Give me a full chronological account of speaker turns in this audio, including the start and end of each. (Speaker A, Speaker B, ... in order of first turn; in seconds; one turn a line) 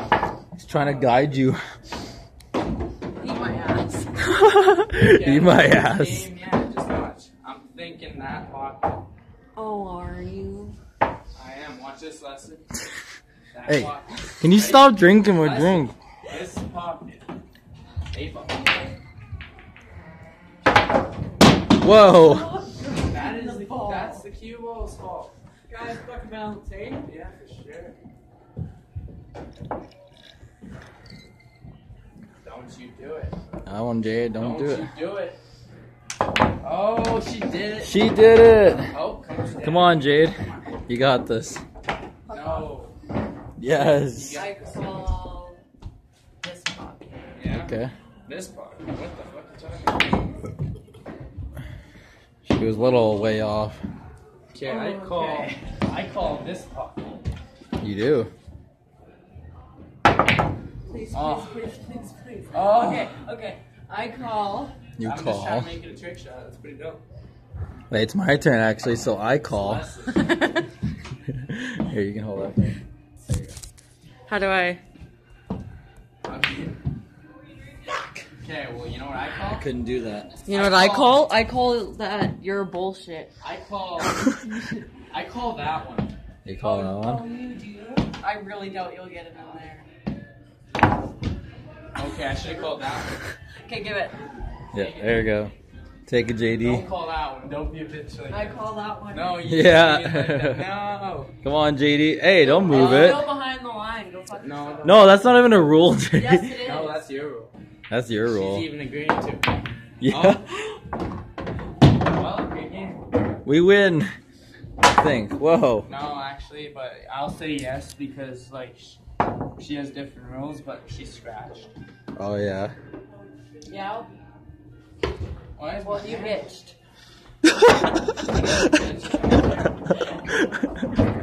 Speaker A: 0.6-1.6
Speaker B: 0.7-1.5
Speaker C: 3.2-4.3
Speaker A: 4.3-6.2
Speaker B: 4.9-9.0
Speaker C: 9.6-10.7
Speaker B: 11.3-12.7
Speaker B: 13.5-17.2
Speaker A: 14.4-15.9
Speaker B: 18.1-18.8
Speaker A: 21.8-22.6
Speaker C: 21.9-24.2
Speaker B: 23.0-25.3
Speaker C: 25.7-27.0
Speaker B: 27.0-27.9
Speaker B: 32.4-33.4
Speaker A: 33.7-34.9
Speaker B: 34.4-35.4
Speaker B: 36.6-38.0
Speaker A: 37.8-38.9
Speaker B: 38.9-40.6
Speaker A: 39.6-41.6
Speaker C: 42.2-42.7
Speaker B: 42.3-42.9
Speaker A: 43.6-44.5
Speaker B: 43.6-44.6
Speaker C: 44.3-45.6
Speaker C: 46.4-47.2
Speaker B: 47.3-47.7
Speaker A: 47.5-47.9
Speaker B: 48.2-50.1
Speaker A: 52.5-53.8
Speaker B: 54.5-57.2
Speaker C: 54.6-55.6
Speaker A: 57.8-58.3
Speaker C: 60.9-64.7
Speaker B: 61.1-61.5
Speaker B: 62.5-63.1
Speaker A: 65.0-65.7
Speaker B: 65.0-67.0
Speaker A: 67.9-69.8
Speaker B: 69.4-70.3
Speaker C: 70.1-70.6
Speaker A: 71.3-72.8
Speaker C: 74.3-74.8
Speaker B: 76.2-76.8
Speaker B: 78.4-79.7
Speaker A: 79.4-80.3
Speaker B: 80.4-81.2
Speaker C: 80.4-83.3
Speaker B: 83.4-84.3
Speaker C: 84.1-84.9
Speaker B: 85.1-86.1
Speaker A: 86.4-87.2
Speaker C: 86.6-89.9
Speaker B: 91.9-93.2
Speaker C: 93.6-94.2
Speaker A: 94.7-95.5
Speaker B: 94.7-95.3
Speaker A: 96.1-96.9
Speaker B: 96.6-101.3
Speaker C: 98.3-99.4
Speaker A: 99.4-100.7
Speaker A: 101.4-103.3
Speaker C: 102.4-105.1
Speaker B: 102.7-103.1
Speaker B: 104.4-105.0
Speaker A: 104.8-106.6
Speaker C: 106.1-107.0
Speaker B: 106.6-107.5
Speaker A: 107.9-108.7
Speaker B: 108.2-110.5
Speaker A: 110.0-110.6
Speaker B: 112.0-113.0
Speaker A: 113.4-114.1
Speaker A: 114.8-115.9
Speaker B: 115.9-119.0
Speaker B: 119.6-121.7
Speaker A: 122.2-122.7
Speaker C: 123.7-124.1
Speaker B: 125.6-126.5
Speaker C: 125.8-126.8
Speaker B: 128.2-130.1